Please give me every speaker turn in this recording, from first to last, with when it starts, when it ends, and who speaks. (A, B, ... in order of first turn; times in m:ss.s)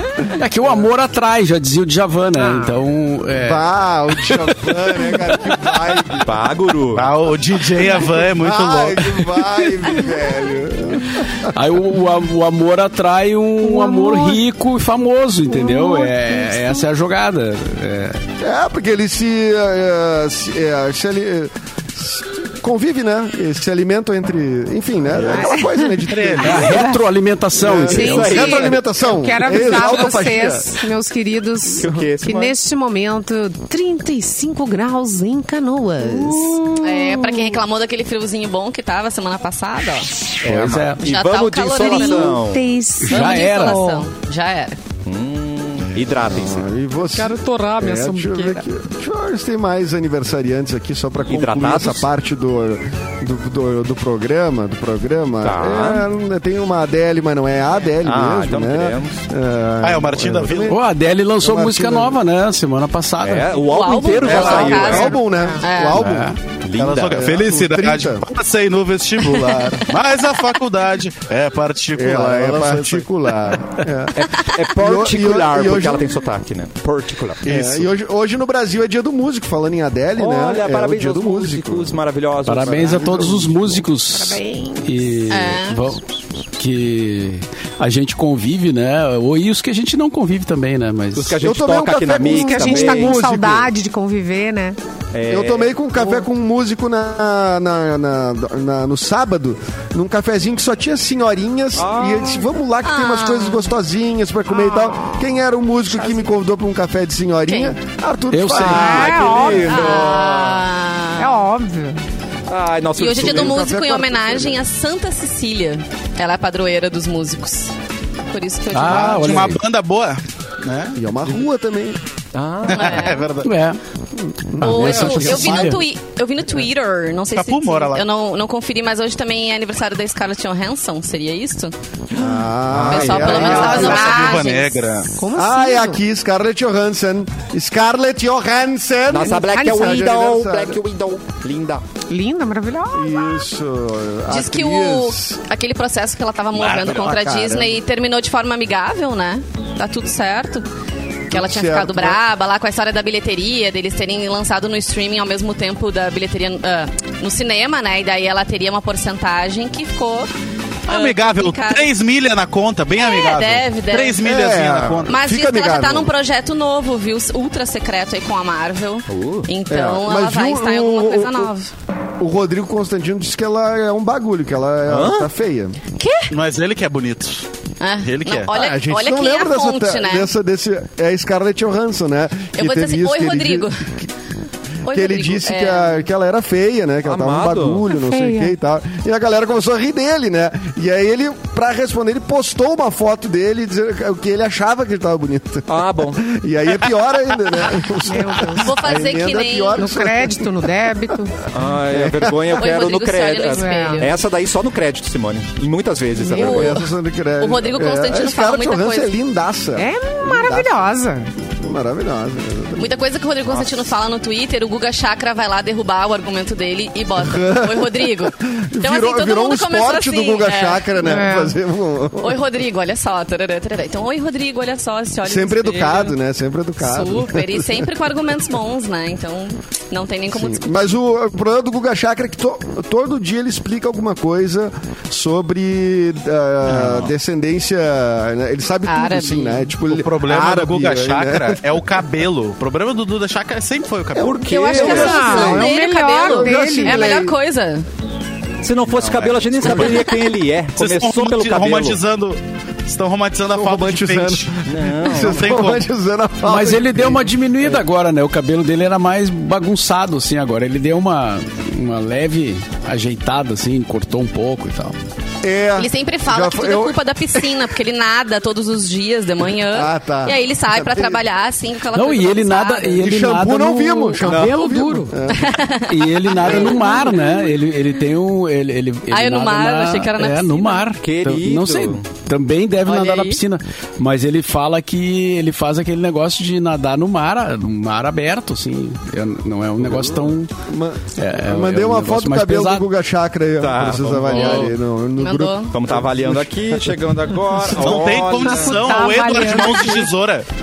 0:00.3-0:03.7 A
0:02.4-0:02.7 B
0:03.4-0:06.4 C
0:06.2-0:07.1 D
0:06.9-0:09.3 E
0:08.0-0:11.5 C
0:11.4-0:18.2 A
0:13.6-0:14.4 B
0:15.5-0:16.8 B
0:18.4-0:26.7 C
0:25.2-0:25.5 D
0:25.3-0:27.0 B
0:26.0-0:26.8 E
0:26.4-0:28.5 A
0:27.6-0:30.7 C
0:27.7-0:28.8 D
0:27.8-0:36.8 B
0:29.5-0:30.1 D
0:31.8-0:32.5 D
0:36.8-0:40.2 F
0:40.4-0:42.7 D
0:40.4-0:41.0 A
0:41.0-0:42.4 F
0:41.8-0:44.1 B
0:43.0-0:43.8 A
0:43.1-0:44.8 F
0:45.0-0:46.7 D
0:46.2-1:00.8 C
0:47.1-0:48.6 B
0:51.3-0:52.0 D
0:55.4-0:56.0 D
0:58.0-0:59.2 D
0:59.8-1:00.8 E
1:00.7-1:03.6 A
1:01.4-1:02.2 C
1:03.2-1:05.2 D
1:03.5-1:06.0 F
1:04.2-1:05.0 E
1:04.3-1:06.4 C
1:05.2-1:05.6 B
1:06.0-1:06.4 A
1:06.6-1:07.3 D
1:06.8-1:13.1 E
1:07.1-1:08.2 C
1:11.9-1:16.1 C
1:14.1-1:17.9 D
1:17.4-1:21.9 C
1:20.2-1:23.4 D
1:22.4-1:26.0 A
1:22.7-1:23.8 C
1:24.1-1:25.2 B
1:25.3-1:25.8 F
1:26.6-1:31.4 A
1:31.1-1:33.3 D
1:31.4-1:33.7 C
1:32.2-1:34.8 B
1:35.1-1:35.7 D
1:35.3-1:50.4 C
1:41.8-1:42.4 D
1:42.8-1:43.7 F
1:44.5-1:45.2 B
1:45.9-1:46.3 B
1:47.5-1:47.8 F
1:48.3-1:49.0 A
1:48.6-1:50.6 D
1:48.6-1:50.0 B
1:49.5-1:51.4 F
1:51.2-1:52.0 B
1:52.5-1:53.7 D
1:53.0-1:57.7 F
1:53.1-1:54.6 C
1:58.3-1:59.6 F
1:58.7-1:59.6 A
1:58.9-2:01.0 E
2:00.9-2:02.0 C
2:02.3-2:03.2 D
2:02.7-2:03.3 F
2:02.7-2:03.5 E
2:03.4-2:03.8 A
2:04.2-2:05.8 C
2:04.6-2:05.8 A
2:04.6-2:11.7 F
2:04.9-2:05.4 D
2:07.3-2:08.0 E
2:12.1-2:14.0 D
2:12.1-2:14.2 C
2:12.7-2:15.1 E
2:12.8-2:15.0 F
2:13.2-2:14.5 B
2:15.2-2:16.0 B
2:15.3-2:20.8 C
2:19.1-2:21.8 D
2:19.3-2:20.1 B
2:22.1-2:23.4 B
2:22.9-2:25.4 C
2:24.3-2:30.6 F
2:26.6-2:27.0 E
2:26.6-2:27.8 C
2:31.3-2:32.2 C
2:31.3-2:40.3 F
2:40.9-2:45.2 E
2:40.9-2:41.9 F
2:43.0-2:44.2 F
2:44.2-2:46.1 C
2:45.1-2:51.7 F
2:49.1-2:49.5 D
2:49.7-2:51.5 C
2:52.2-2:55.8 C
2:54.9-2:55.3 D
2:56.0-2:56.3 F
2:56.3-2:57.4 E
2:57.8-3:00.3 F
2:58.0-2:58.5 E
2:58.5-3:04.1 C
3:02.6-3:03.8 F
3:04.8-3:06.0 F
3:04.8-3:20.7 C
3:07.0-3:07.8 D
3:07.9-3:08.5 B
3:15.7-3:16.2 D
3:18.0-3:18.7 B
3:18.6-3:19.8 F
3:19.8-3:21.4 B
3:21.5-3:26.8 D
3:21.9-3:22.6 C
3:22.5-3:24.2 F
3:23.5-3:24.1 B
3:26.2-3:30.8 C
3:26.3-3:26.8 F
3:27.4-3:29.1 F
3:29.8-3:31.3 B
3:31.6-3:32.9 C
3:32.8-3:40.9 F
3:33.5-3:33.8 D
3:37.2-3:42.4 C
3:41.0-3:41.6 B
3:42.2-3:46.1 F
3:45.2-3:47.9 C
3:46.8-3:50.9 F
3:50.3-4:01.6 C
3:56.7-3:57.1 E
3:58.8-3:59.7 F
3:59.8-4:04.5 E
4:04.2-4:05.6 D
4:04.4-4:07.8 F
4:04.6-4:07.4 C
4:04.7-4:07.0 B
4:08.6-4:12.0 D
4:08.9-4:09.9 E
4:10.8-4:14.6 E
4:13.5-4:17.8 C
4:14.6-4:15.6 D
4:15.2-4:15.8 E
4:16.4-4:24.9 A
4:25.4-4:27.6 C
4:25.7-4:33.1 F
4:29.6-4:31.2 C
4:31.9-4:34.9 A
4:33.0-4:35.6 C
4:34.2-4:34.6 D
4:34.4-4:35.1 B
4:35.3-4:37.4 F
4:35.8-4:50.5 A
4:36.4-4:36.8 C
4:39.1-4:40.9 F
4:41.0-4:42.0 D
4:42.8-4:43.4 F
4:50.7-4:57.0 C
4:51.2-4:52.9 A
4:53.6-4:54.7 D
4:54.3-4:54.7 A
4:55.2-4:55.7 F
4:55.7-4:58.9 D
4:57.5-4:58.0 C
4:57.7-5:00.5 E
4:58.4-5:00.0 B